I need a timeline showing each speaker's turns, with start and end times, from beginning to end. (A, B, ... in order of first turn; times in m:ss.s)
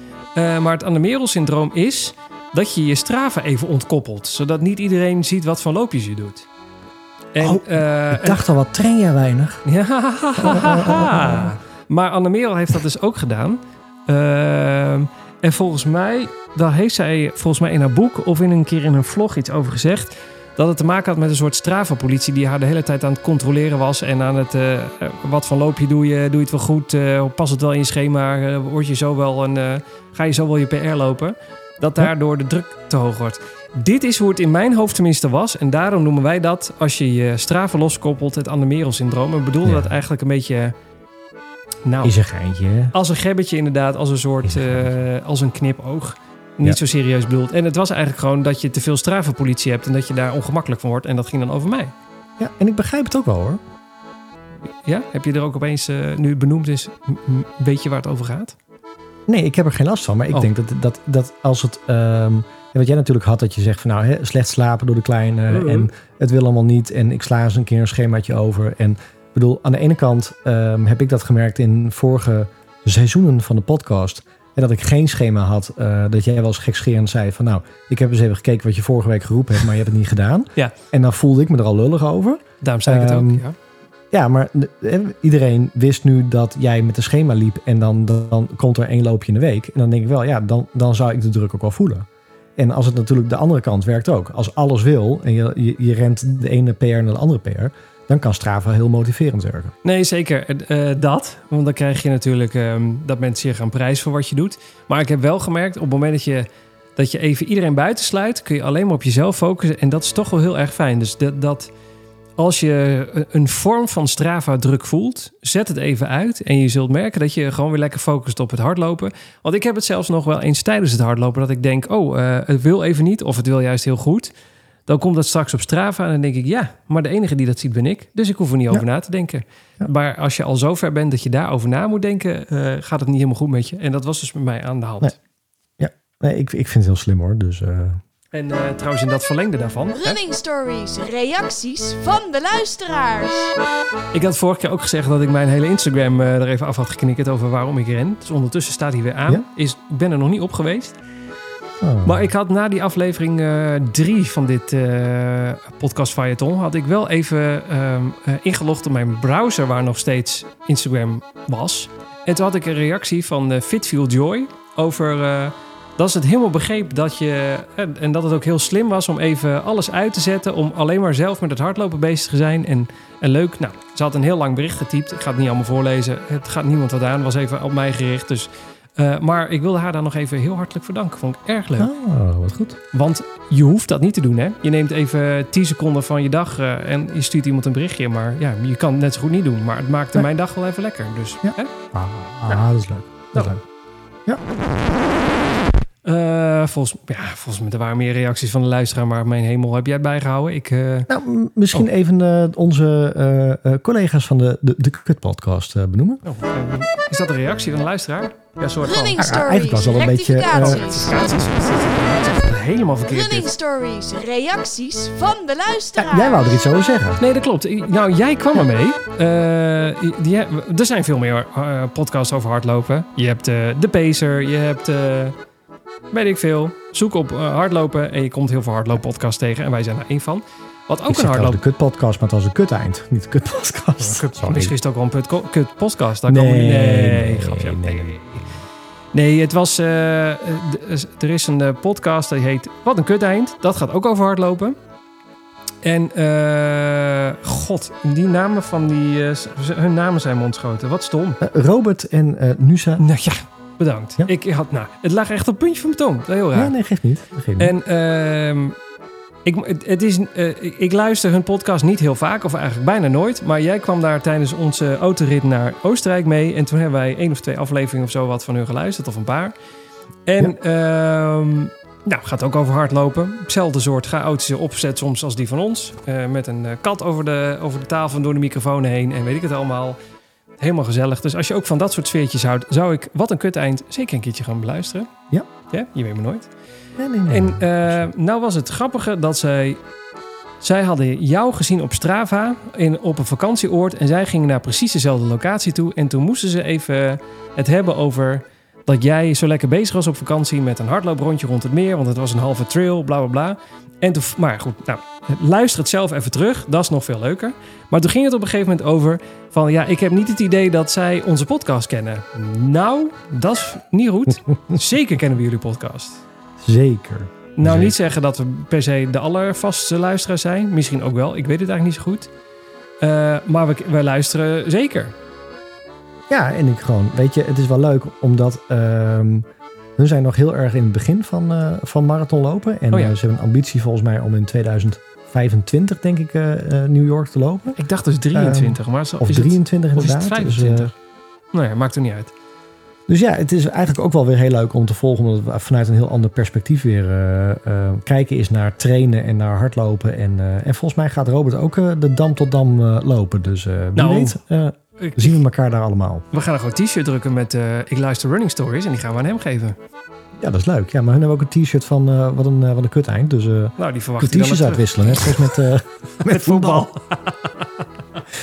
0:00.4-0:06.5 A
0:07.3-0:08.4 A
0:07.4-0:09.6 B
0:09.6-0:40.7 A
0:10.4-0:11.5 B
0:39.6-0:39.9 B
0:41.9-0:42.2 A
0:42.0-0:43.0 B
0:42.9-0:51.9 A
0:44.4-0:45.0 B
0:52.4-0:53.6 B
0:54.7-0:58.6 A
0:59.3-1:23.4 B
1:05.5-1:05.9 A
1:22.6-1:23.6 A
1:24.1-1:39.7 B
1:39.8-1:51.7 A
1:52.4-2:04.3 A
2:04.9-2:15.2 A
2:15.8-2:18.0 B
2:18.3-2:20.2 A
2:20.0-2:23.5 C
2:24.1-2:31.0 A
2:31.8-2:32.2 B
2:32.0-3:01.9 A
3:01.8-3:02.8 B
3:02.9-3:11.8 A
3:11.4-3:13.6 B
3:13.3-3:13.6 A
3:16.1-3:21.1 A
3:21.1-3:26.2 B
3:26.2-3:29.2 A
3:28.8-3:31.3 C
3:29.2-3:30.9 B
3:30.5-3:33.5 A
3:33.1-3:36.6 C
3:36.0-3:37.2 B
3:37.2-3:45.4 A
3:46.1-3:51.6 A
3:51.1-3:54.8 B
3:54.0-3:58.5 A
3:56.3-3:58.4 B
3:59.1-4:04.8 A
4:05.8-4:11.4 A
4:11.4-4:13.0 B
4:13.0-4:16.7 A
4:16.6-4:17.7 B
4:17.6-4:18.8 A
4:19.4-4:29.5 A
4:30.3-4:40.0 A
4:40.6-4:45.1 A
4:45.7-4:46.5 A
4:47.0-4:48.1 B
4:47.3-4:49.8 A
4:50.6-5:16.2 A
5:16.6-5:17.9 B
5:17.6-5:22.3 A
5:23.0-5:25.2 A
5:26.3-5:37.8 B
5:37.8-5:40.9 A
5:38.3-5:40.9 B
5:41.5-5:42.3 A
5:43.1-5:56.3 B
5:54.0-5:54.4 A
5:55.0-5:55.4 A
5:56.3-5:59.8 A
6:00.4-6:06.9 B
6:03.8-6:05.5 A
6:06.2-6:08.2 A